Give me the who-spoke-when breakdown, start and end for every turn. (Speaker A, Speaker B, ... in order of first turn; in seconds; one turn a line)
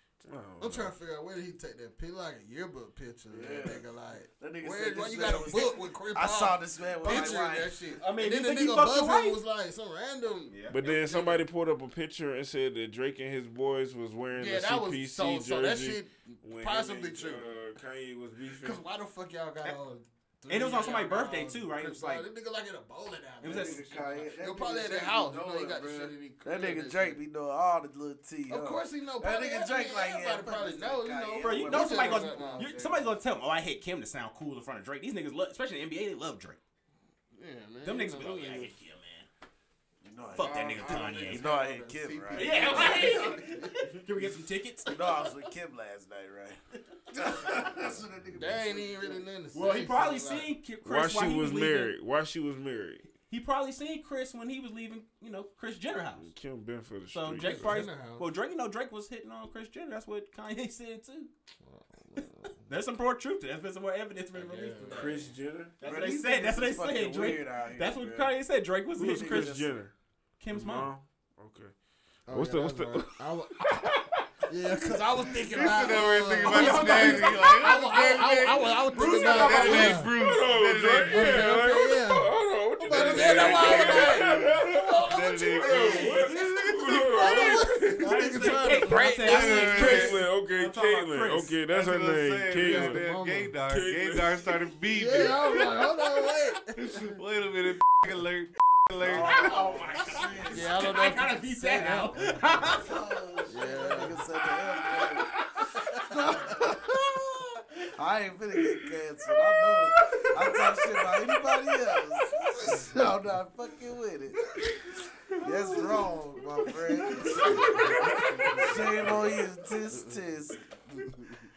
Speaker A: 0.2-0.9
Speaker B: 0.6-11.4
Speaker C: 3.3-3.9
Speaker C: 4.4-7.8
Speaker D: 7.0-9.4
Speaker D: 10.5-10.8
Speaker A: 10.7-18.8
Speaker B: 14.4-17.5
Speaker B: 18.5-27.2
Speaker D: 20.5-22.3
Speaker D: 23.4-23.8
Speaker C: 23.4-32.7
Speaker B: 28.5-33.1
Speaker D: 31.4-36.6
Speaker B: 37.3-38.7
Speaker D: 37.8-39.3
Speaker C: 40.0-43.2
Speaker D: 40.3-41.5
Speaker B: 40.4-43.9
Speaker D: 42.4-45.0
Speaker C: 44.9-49.2
Speaker B: 48.4-50.5
Speaker D: 49.5-51.9
Speaker A: 50.8-53.1
Speaker D: 53.3-56.3
Speaker A: 56.2-57.8
Speaker D: 57.1-61.3
Speaker B: 57.6-58.3
Speaker B: 61.6-62.6
Speaker D: 62.6-69.5
Speaker B: 64.4-65.1
Speaker A: 64.9-65.7
Speaker C: 65.8-68.4
Speaker A: 69.0-70.0
Speaker C: 69.0-69.8
Speaker D: 70.4-70.9
Speaker A: 70.5-71.7
Speaker B: 72.3-73.6
Speaker A: 72.3-73.9
Speaker B: 74.5-80.1
Speaker E: 75.2-81.8
Speaker D: 76.4-77.5
Speaker A: 78.9-84.9
Speaker D: 78.9-80.0
Speaker B: 81.1-82.3
Speaker B: 82.8-86.5
Speaker E: 82.9-100.2
Speaker A: 85.6-93.0
Speaker D: 86.0-86.4
Speaker B: 87.2-90.1
Speaker D: 87.2-90.3
Speaker D: 91.0-91.5
Speaker B: 92.6-93.6
Speaker A: 93.7-94.6
Speaker B: 94.9-97.2
Speaker C: 99.0-100.9
Speaker D: 99.1-102.9
Speaker B: 100.5-102.6
Speaker C: 102.7-105.3
Speaker B: 103.5-104.2
Speaker D: 104.3-107.7
Speaker C: 106.0-107.0
Speaker C: 108.0-114.6
Speaker D: 109.9-111.5
Speaker D: 112.3-112.7
Speaker C: 115.4-117.7
Speaker D: 115.4-116.2
Speaker D: 116.7-119.4
Speaker B: 117.3-119.2
Speaker C: 118.6-120.6
Speaker B: 119.9-120.2
Speaker B: 120.9-121.5